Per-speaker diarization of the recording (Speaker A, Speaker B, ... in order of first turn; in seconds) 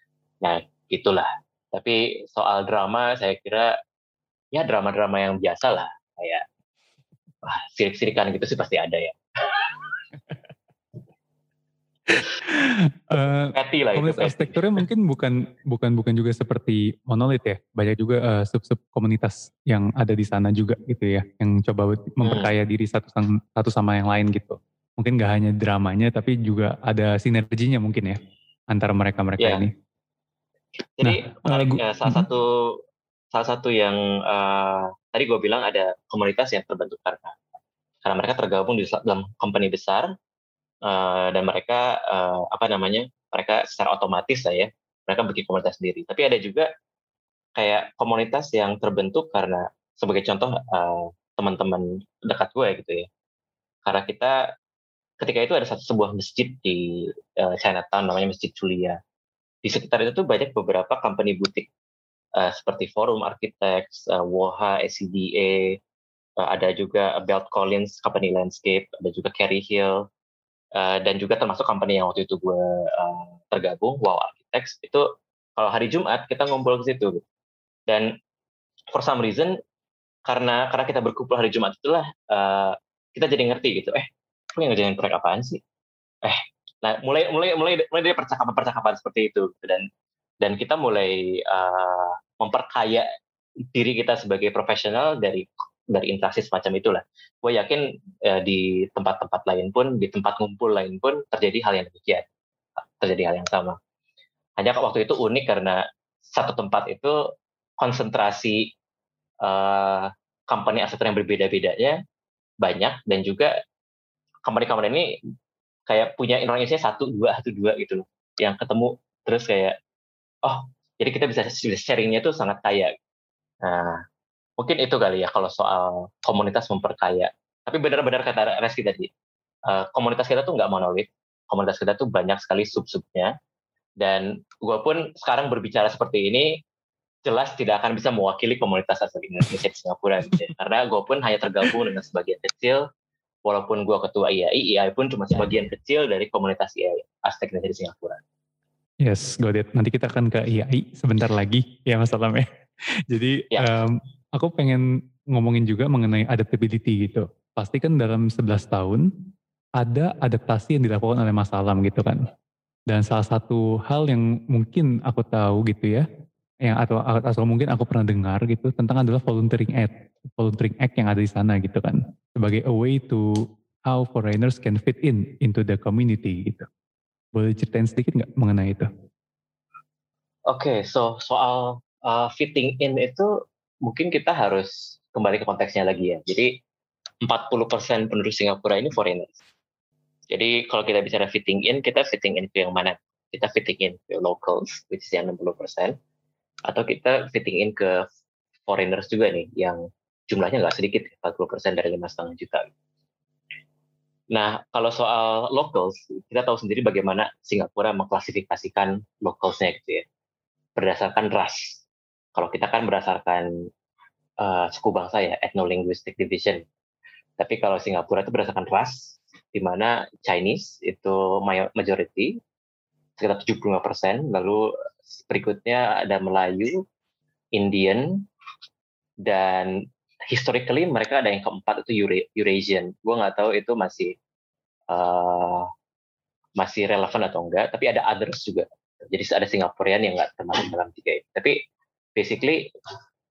Speaker A: 0.4-3.7, 4.5-6.4, 7.4-9.7, 13.5-14.8, 22.2-22.5, 29.4-29.6, 31.0-32.8, 33.3-37.4, 38.0-40.1, 40.9-46.7, 47.6-53.1, 53.9-54.4, 55.2-59.0, 59.6-61.7, 62.4-65.8, 66.4-70.1, 70.8-77.2, 77.9-78.1, 78.9-79.6, 80.3-85.6, 86.2-89.9, 90.4-93.1, 93.7-102.3, 103.0-103.8, 104.6-107.2, 107.8-108.7, 109.4-112.0, 112.6-113.5, 114.5-115.1, 115.9-119.8, 120.4-122.9, 123.6-124.0, 124.6-129.1, 129.7-133.3, 134.0-136.6, 137.2-142.9, 143.4-148.2, 153.5-153.8, 180.5-183.3, 183.8-186.5, 187.2-189.4, 190.3-196.0, 196.7-198.1, 198.7-202.7, 204.3-210.1, 210.8-211.8, 212.3-213.5, 214.4-216.7, 217.4-222.4, 223.2-226.8, 227.6-228.2, 229.2-229.8, 230.3-234.1, 234.9-235.7, 236.6-241.6, 242.2-242.7
Speaker B: 12.2-28.2, 28.7-29.7, 31.0-32.3, 149.0-152.5, 153.1-159.1, 159.8-162.2, 162.9-166.1, 166.7-176.7, 177.3-178.9